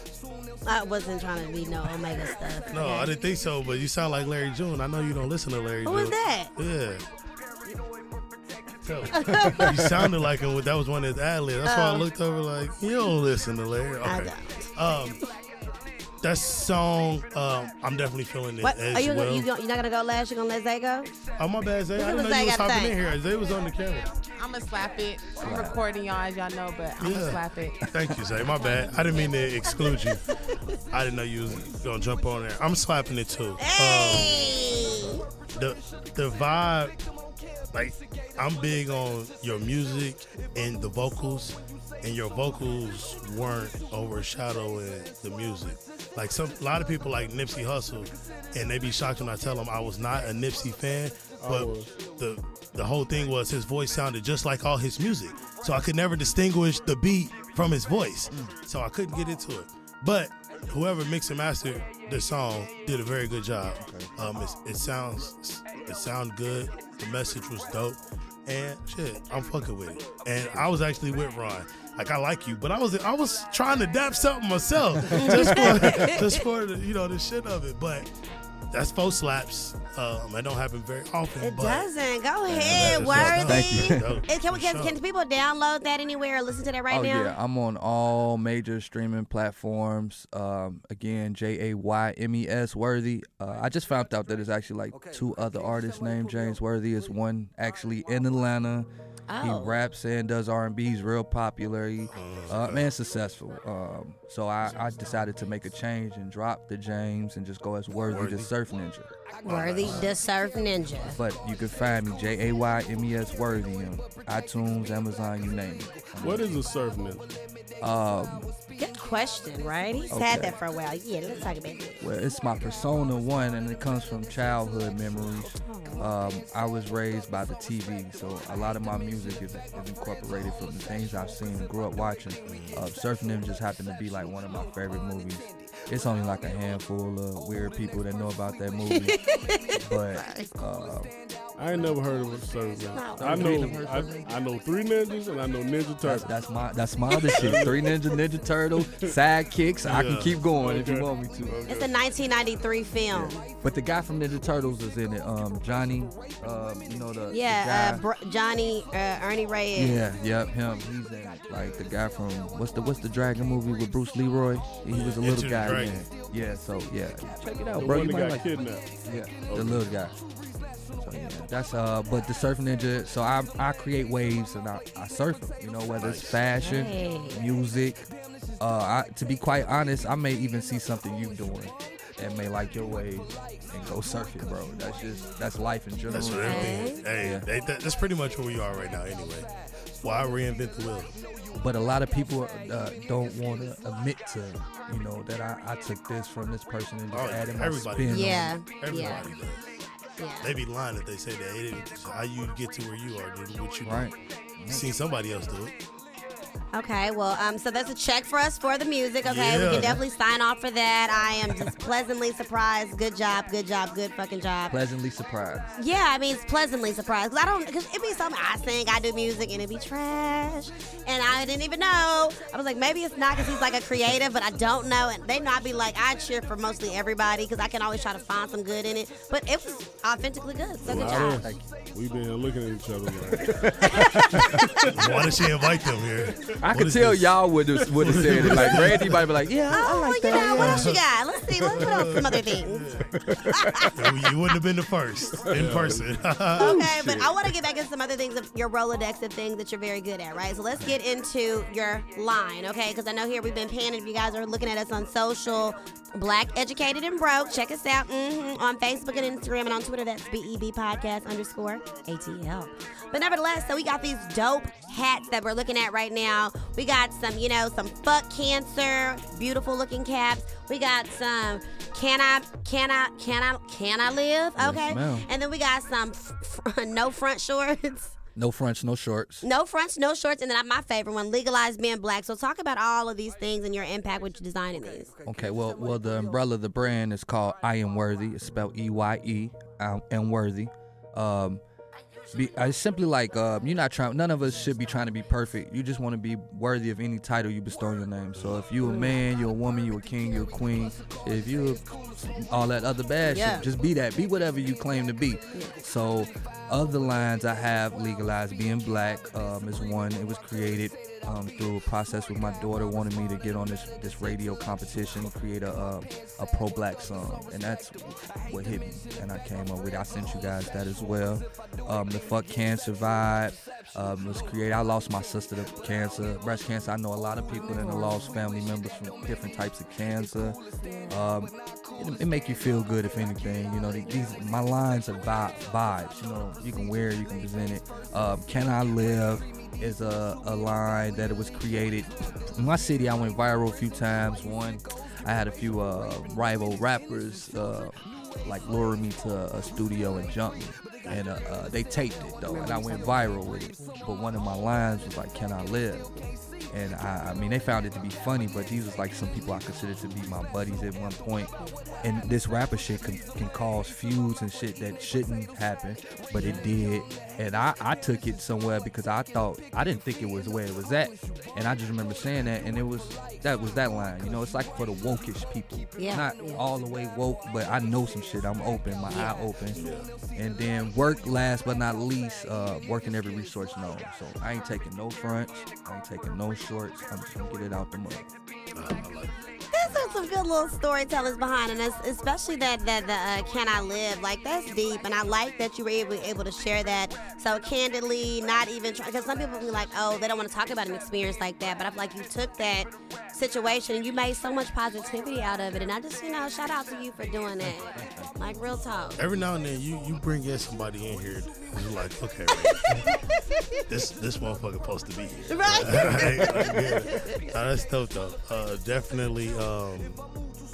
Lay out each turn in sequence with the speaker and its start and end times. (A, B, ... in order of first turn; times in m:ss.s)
0:00.6-0:03.1 A
0:02.7-0:07.1 B
0:05.8-0:06.5 A
0:08.8-0:15.2 B
0:09.1-0:09.8 A
0:11.6-0:12.1 A
0:14.0-0:14.7 A
0:16.2-0:19.5 B
0:18.6-0:21.1 A
0:21.4-0:24.1 B
0:22.0-0:23.0 A
0:24.4-0:27.8 C
0:25.4-0:25.8 D
0:27.0-0:30.2 B
0:30.9-0:34.8 B
0:33.6-0:35.2 A
0:35.5-0:37.0 B
0:37.7-1:18.1 B
0:51.4-0:51.9 E
0:58.3-0:58.6 D
1:03.8-1:04.2 D
1:15.1-1:16.4 A
1:15.1-1:16.1 D
1:18.7-1:21.9 B
1:21.4-1:27.4 A
1:22.5-1:24.2 D
1:22.6-1:25.0 B
1:26.9-1:38.9 D
1:39.3-1:39.8 A
1:39.4-1:49.1 D
1:42.1-1:42.9 B
1:48.1-1:48.5 B
1:49.4-1:51.2 A
1:49.4-1:50.1 B
1:49.8-1:50.2 D
1:51.1-1:56.6 D
1:56.2-1:57.3 E
1:57.8-1:58.5 D
1:58.8-2:02.0 A
2:00.1-2:00.6 D
2:02.0-2:19.2 D
2:05.6-2:06.1 A
2:12.5-2:12.9 B
2:18.9-2:20.5 A
2:19.8-2:21.1 D
2:21.6-2:26.3 E
2:22.9-2:23.5 A
2:23.1-2:24.4 D
2:26.0-2:31.6 D
2:27.3-2:27.9 E
2:29.8-2:30.4 B
2:30.6-2:31.9 E
2:31.7-2:33.4 A
2:33.1-2:38.0 D
2:37.3-2:40.0 A
2:39.8-2:48.5 D
2:44.9-2:46.1 B
2:47.8-2:48.9 E
2:49.0-2:50.2 D
2:49.5-2:49.9 E
2:51.0-2:58.1 D
2:56.0-2:56.4 B
2:56.6-2:57.4 A
2:58.6-3:07.5 D
3:06.1-3:09.5 B
3:06.4-3:07.0 A
3:10.0-3:11.1 B
3:11.5-3:19.3 D
3:17.1-3:19.6 B
3:18.1-3:19.2 A
3:20.2-3:20.5 A
3:20.4-3:24.1 B
3:23.8-3:24.9 D
3:24.7-3:25.7 B
3:26.7-3:34.8 A
3:29.2-3:30.0 B
3:29.7-3:30.0 D
3:34.7-3:35.7 D
3:35.8-3:51.4 A
3:50.8-3:51.6 D
3:50.9-3:54.9 E
3:53.5-3:54.9 D
3:53.9-3:54.6 A
3:54.9-3:57.5 B
3:56.6-4:01.0 D
3:57.9-3:59.1 E
3:58.0-3:59.2 B
3:59.7-4:02.8 A
4:00.5-4:01.0 B
4:01.7-4:03.1 B
4:03.1-4:03.9 D
4:03.6-4:03.9 A
4:03.9-4:07.3 B
4:05.5-4:06.1 E
4:06.6-4:38.2 A
4:34.6-4:35.3 D
4:38.4-4:39.5 D
4:39.4-4:45.1 A
4:45.2-4:51.6 D
4:52.3-5:56.1 D
4:58.8-4:59.2 A
5:03.2-5:03.7 A
5:27.6-5:28.3 A
5:30.8-5:31.2 A
5:52.5-5:53.9 A
5:56.7-6:01.5 D
6:02.0-6:19.8 D
6:06.4-6:06.7 A
6:16.0-6:16.6 A
6:19.1-6:19.4 A
6:19.8-6:20.1 B
6:20.4-6:28.3 D
6:28.8-6:29.4 B
6:29.7-6:49.2 A
6:47.8-6:48.3 D
6:49.2-6:53.1 B
6:52.5-6:53.8 A
6:53.9-7:00.2 B
6:55.5-6:57.4 A